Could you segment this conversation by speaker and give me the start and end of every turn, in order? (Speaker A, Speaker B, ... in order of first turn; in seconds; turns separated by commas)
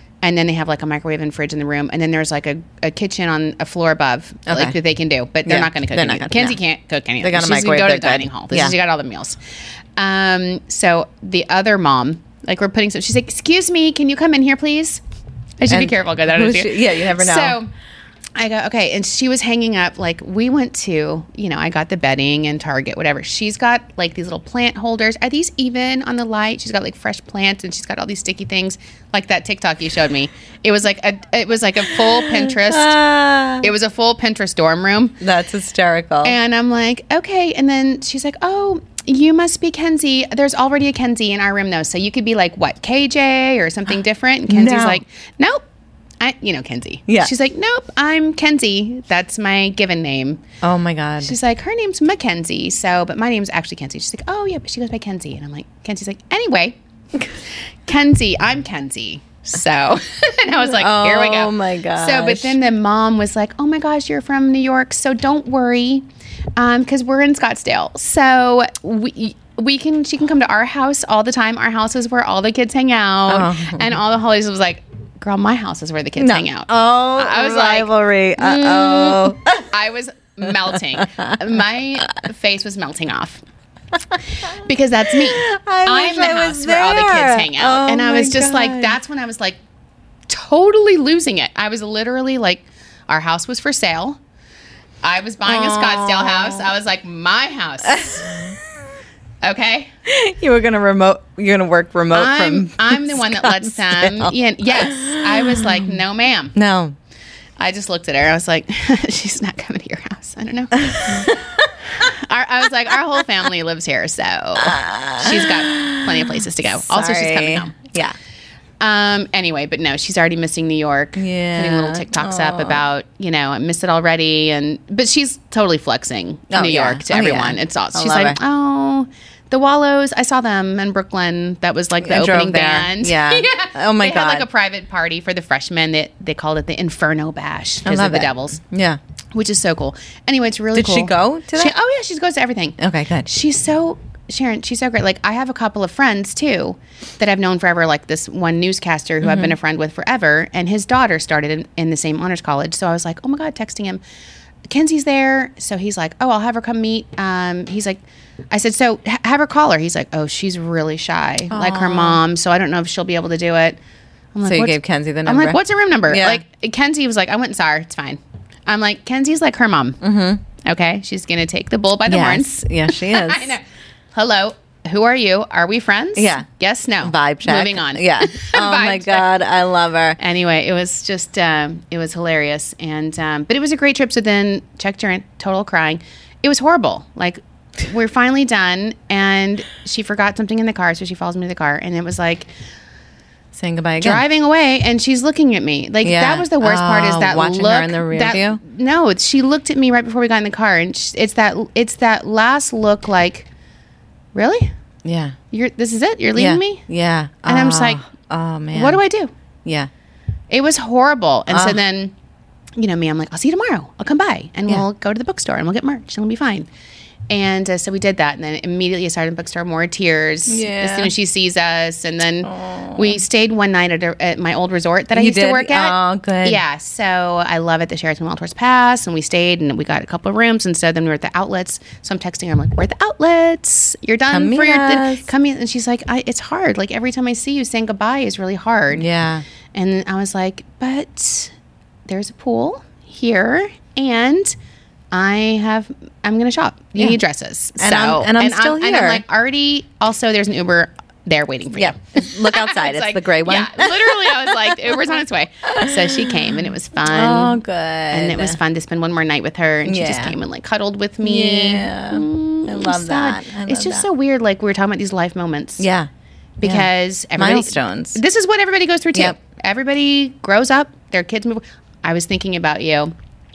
Speaker A: 0.2-9.4, Speaker B: 4.5-4.8, Speaker B: 5.5-6.6, Speaker B: 7.2-8.8, Speaker A: 9.9-15.0, Speaker A: 15.6-17.7, Speaker B: 15.7-17.6, Speaker A: 18.4-33.0, Speaker B: 31.8-33.7, Speaker A: 33.6-35.2, Speaker B: 35.2-36.4, Speaker A: 36.2-45.6, Speaker B: 44.5-45.0, Speaker A: 46.2-50.4, Speaker B: 47.1-47.3, Speaker B: 50.6-51.4, Speaker A: 51.2-56.8, Speaker A: 57.9-66.0, Speaker B: 60.6-62.6, Speaker A: 66.6-83.4, Speaker B: 73.3-74.0, Speaker B: 76.2-79.7, Speaker B: 80.5-81.4, Speaker B: 84.1-89.0, Speaker A: 84.3-89.6, Speaker A: 90.3-94.2, Speaker A: 95.0-98.3, Speaker B: 95.4-96.7, Speaker B: 97.9-98.6, Speaker A: 99.4-99.9, Speaker B: 100.0-106.0, Speaker A: 102.1-106.5, Speaker B: 106.5-107.0, Speaker A: 107.6-117.8, Speaker B: 110.8-111.8, Speaker B: 114.6-118.2, Speaker A: 118.8-138.6, Speaker B: 121.2-122.8, Speaker B: 126.5-128.4, Speaker B: 132.0-134.5, Speaker B: 137.8-139.0, Speaker A: 139.3-154.0, Speaker B: 140.7-141.8, Speaker B: 142.8-143.3, Speaker B: 149.2-149.6, Speaker A: 154.7-163.8, Speaker B: 161.5-162.2, Speaker A: 164.3-170.0, Speaker B: 164.4-166.4, Speaker B: 170.0-170.4, Speaker A: 170.6-179.3, Speaker B: 172.1-173.5, Speaker B: 176.2-176.4, Speaker B: 177.0-180.2, Speaker A: 180.2-192.5, Speaker B: 193.5-194.2, Speaker A: 194.0-203.5, Speaker B: 196.0-198.6, Speaker A: 204.3-204.7, Speaker B: 205.0-205.3, Speaker A: 205.5-206.8, Speaker B: 206.3-209.0, Speaker A: 207.5-208.0, Speaker A: 208.7-209.3, Speaker B: 209.6-209.9, Speaker A: 210.5-212.1, Speaker B: 211.5-211.8, Speaker A: 212.8-216.7, Speaker A: 217.3-239.1, Speaker B: 220.5-221.1, Speaker B: 222.4-223.2, Speaker B: 225.1-226.6, Speaker B: 234.3-235.2, Speaker B: 238.9-239.4, Speaker A: 239.7-241.5, Speaker A: 242.1-244.5, Speaker A: 245.1-257.6, Speaker B: 247.8-249.2, Speaker B: 251.7-256.4, Speaker B: 257.0-258.6, Speaker A: 258.1-265.9, Speaker B: 259.9-260.4, Speaker B: 261.2-264.1, Speaker B: 265.8-266.1, Speaker A: 266.6-273.1, Speaker B: 266.6-268.2